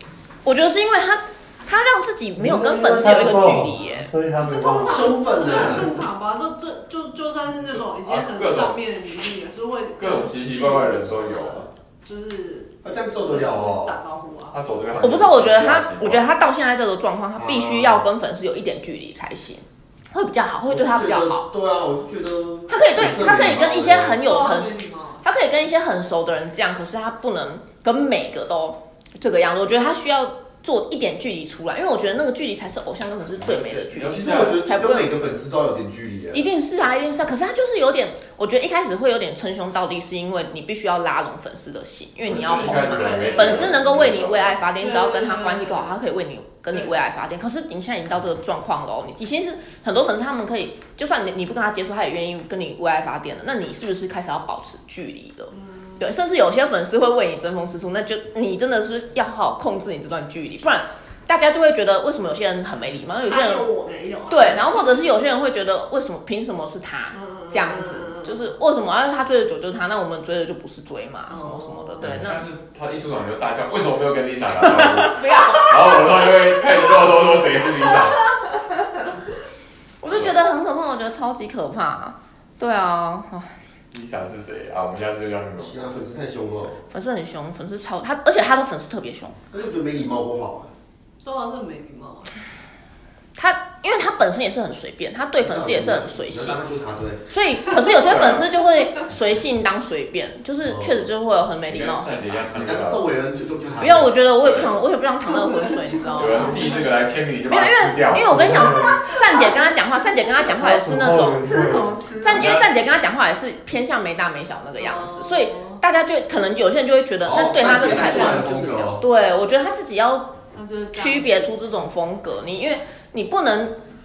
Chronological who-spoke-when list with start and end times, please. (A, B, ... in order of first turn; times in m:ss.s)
0:00.4-0:04.1 A
0:02.4-0:05.2 B
0:04.4-0:14.6 C
0:04.8-0:06.0 D
0:07.7-0:08.9 E
0:10.0-0:11.7 E
0:12.8-0:14.0 D
0:14.5-0:16.2 E
0:15.0-0:21.5 A
0:17.4-0:18.1 D
0:20.7-0:24.3 D
0:22.7-0:35.1 A
0:24.2-0:25.2 C
0:33.4-0:34.7 E
0:34.1-0:36.4 D
0:36.3-1:03.7 A
0:42.2-0:44.5 E
0:42.4-0:43.8 C
0:44.8-0:46.0 C
0:46.7-0:47.0 C
0:55.5-0:56.0 C
1:03.2-1:04.9 C
1:04.3-1:12.5 A
1:07.1-1:08.5 C
1:11.3-1:12.1 C
1:12.0-1:18.3 E
1:14.6-1:16.3 A
1:20.0-1:23.5 A
1:23.9-1:26.0 E
1:25.6-1:26.8 D
1:26.9-1:29.4 A
1:29.5-1:30.7 D
1:31.2-1:32.4 C
1:33.4-1:36.6 A
1:35.4-1:37.3 D
1:37.3-1:42.6 A
1:38.1-1:38.5 E
1:40.7-1:41.1 D
1:41.7-1:43.1 E
1:42.5-1:44.1 D
1:43.8-1:46.7 A
1:44.4-1:44.7 E
1:45.2-1:47.0 C
1:46.2-1:48.6 E
1:47.5-2:00.4 A
1:48.2-1:49.0 B
1:48.7-1:49.6 C
1:50.5-1:52.0 B
1:51.3-1:52.6 C
1:52.4-1:52.7 E
1:54.8-1:55.8 C
1:57.2-1:59.0 D
1:57.6-1:58.6 C
2:00.5-2:01.5 C
2:00.9-2:03.8 A